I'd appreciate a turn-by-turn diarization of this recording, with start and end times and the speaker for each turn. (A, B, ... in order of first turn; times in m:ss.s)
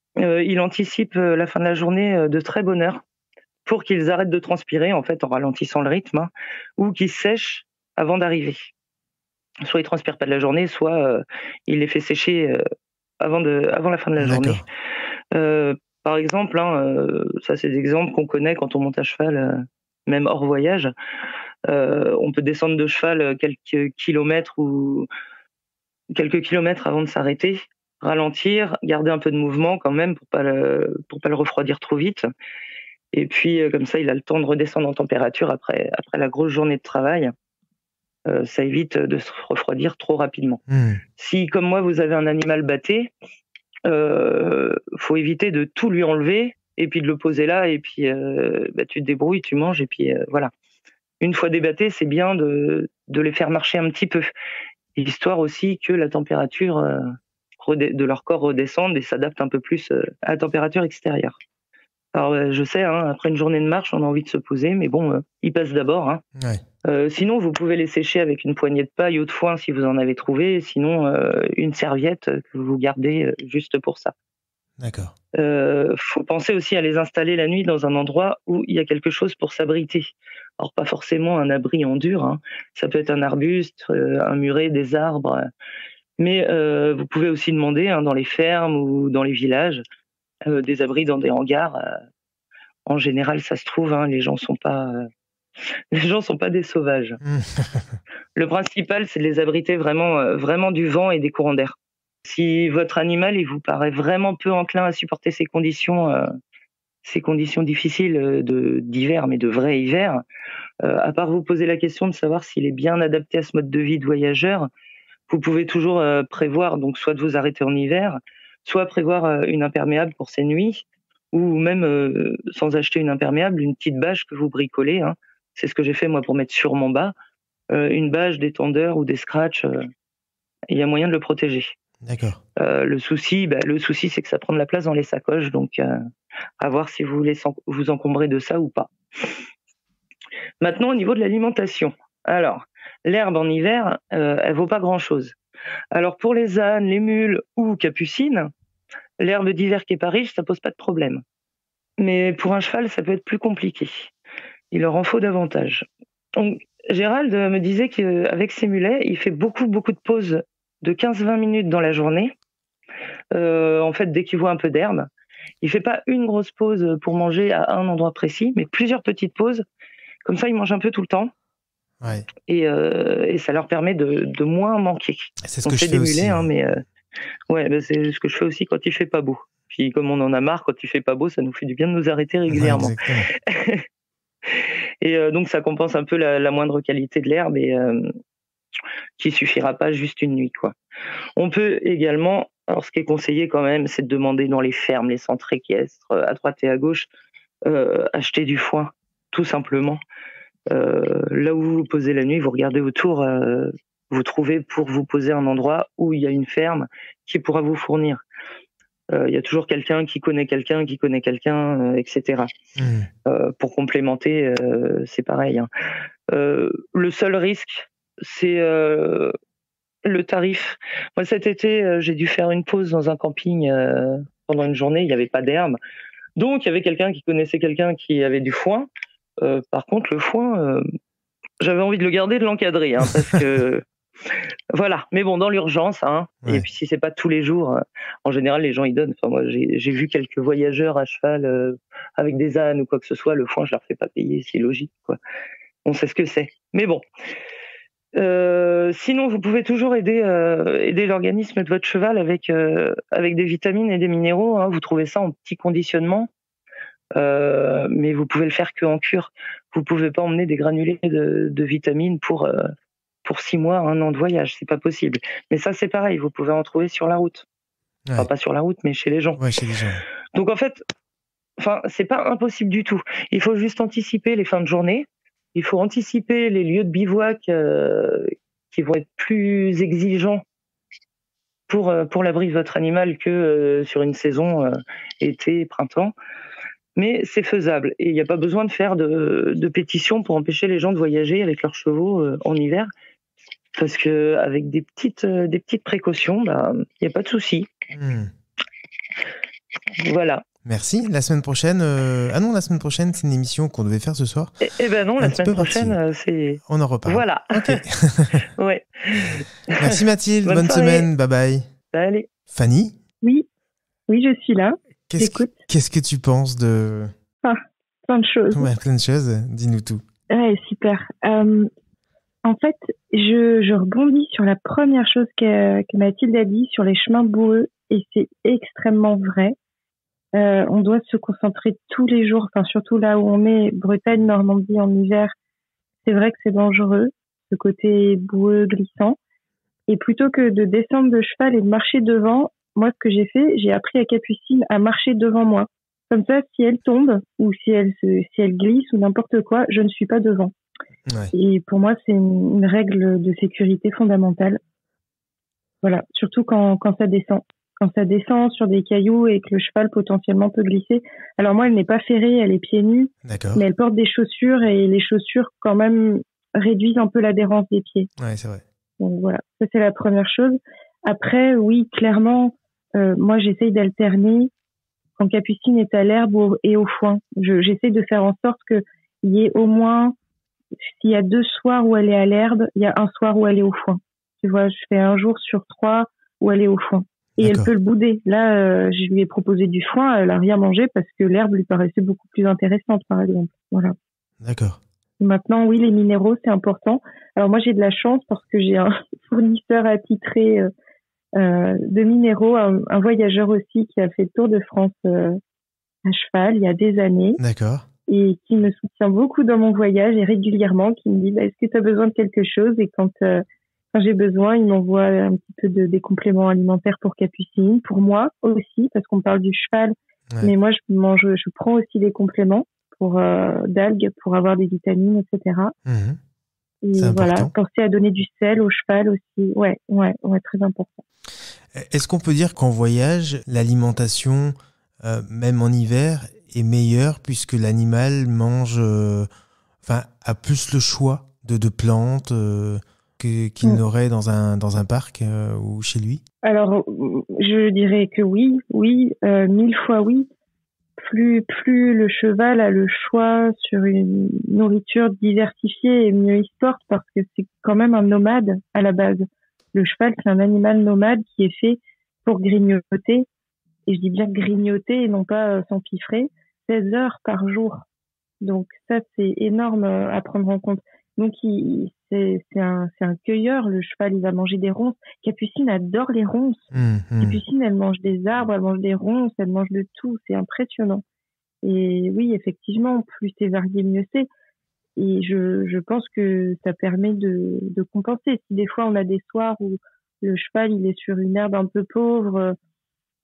0:00.2-0:03.0 A
0:03.6-0:08.7 A
0:09.6-0:12.6 A
0:13.2-0:14.6 A
0:14.2-0:14.6 B
0:15.3-0:20.9 A
0:21.7-0:25.1 A
0:26.1-0:32.3 A
0:33.1-0:37.3 A
0:38.3-0:40.6 A
0:40.7-0:41.0 B
0:41.2-0:43.1 A
0:43.9-0:50.5 A
0:51.2-0:54.3 A
0:55.0-0:57.1 A
0:57.6-1:01.4 A
1:02.1-1:06.2 A
1:06.4-1:06.6 B
1:06.8-1:14.1 A
1:14.8-1:15.1 B
1:15.4-1:20.0 A
1:20.6-1:25.5 A
1:26.2-1:29.8 A
1:30.5-1:32.0 A
1:32.9-1:35.1 A
1:35.9-1:37.2 A
1:37.2-1:38.0 B
1:38.4-1:46.3 A
1:47.0-1:50.2 A
1:50.8-1:54.7 A
1:55.3-2:07.1 A
2:07.7-2:09.9 A
2:10.7-2:11.7 A
2:12.0-2:12.4 B
2:12.6-2:16.0 A
2:16.6-2:18.9 A
2:20.6-2:25.4 A
2:25.9-2:28.5 A
2:29.2-2:31.2 A
2:32.0-2:34.1 A
2:34.7-2:42.3 A
2:43.3-2:45.1 A
2:45.6-2:49.6 A
2:50.2-2:51.3 A
2:52.0-2:52.3 B
2:52.5-2:56.8 A
2:55.4-2:56.5 B
2:57.5-3:02.9 A
3:02.5-3:03.3 B
3:03.5-3:03.8 A
3:04.5-3:08.1 A
3:09.2-3:10.7 A
3:11.4-3:17.1 A
3:17.7-3:20.0 A
3:20.7-3:28.2 A
3:29.1-3:32.5 A
3:32.8-3:33.1 B
3:33.3-3:35.7 A
3:36.3-3:39.3 A
3:40.0-3:45.8 A
3:46.4-3:48.9 A
3:49.4-3:50.8 A
3:51.6-4:05.2 A
4:05.8-4:07.0 A
4:08.2-4:16.3 A
4:17.2-4:22.7 A
4:23.2-4:27.4 A
4:28.2-4:29.4 A
4:29.4-4:30.0 B
4:30.3-4:30.8 A
4:31.6-4:40.4 A
4:41.7-4:46.1 A
4:47.0-4:52.9 A
4:53.8-4:57.7 A
4:57.9-4:58.3 B
5:00.0-5:00.4 A
5:00.6-5:04.5 B
5:04.6-5:07.8 A
5:05.2-5:06.0 B
5:06.7-5:08.5 B
5:08.6-5:11.1 A
5:09.3-5:11.6 B
5:11.9-5:12.3 A
5:12.5-5:13.0 B
5:14.1-5:15.5 C
5:15.1-5:17.1 B
5:17.4-5:18.7 C
5:18.5-5:20.0 B
5:20.3-5:21.7 C
5:22.4-5:29.6 C
5:30.3-5:35.3 C
5:36.0-5:39.2 C
5:39.9-5:50.5 C
5:51.1-5:51.3 B
5:51.3-5:54.6 C
5:55.8-6:08.1 C
6:03.2-6:03.6 B
6:08.2-6:08.6 B
6:09.0-6:14.5 C
6:15.2-6:20.2 C
6:20.8-6:34.0 C
6:27.4-6:27.7 B
6:34.4-6:34.8 B
6:35.2-6:40.7 C
6:41.4-6:45.4 C
6:46.0-6:47.4 C
6:47.4-6:47.9 B
6:48.1-7:05.7 C
7:05.8-7:06.2 B
7:06.8-7:11.0 C
7:07.0-7:07.5 B
7:11.7-7:19.3 B
7:19.8-7:26.2 B
7:26.4-7:30.3 C
7:31.0-7:43.3 C
7:43.9-7:47.9 C
7:48.4-8:01.0 C
7:56.7-7:57.4 B
8:01.6-8:04.3 C
8:05.0-8:12.6 C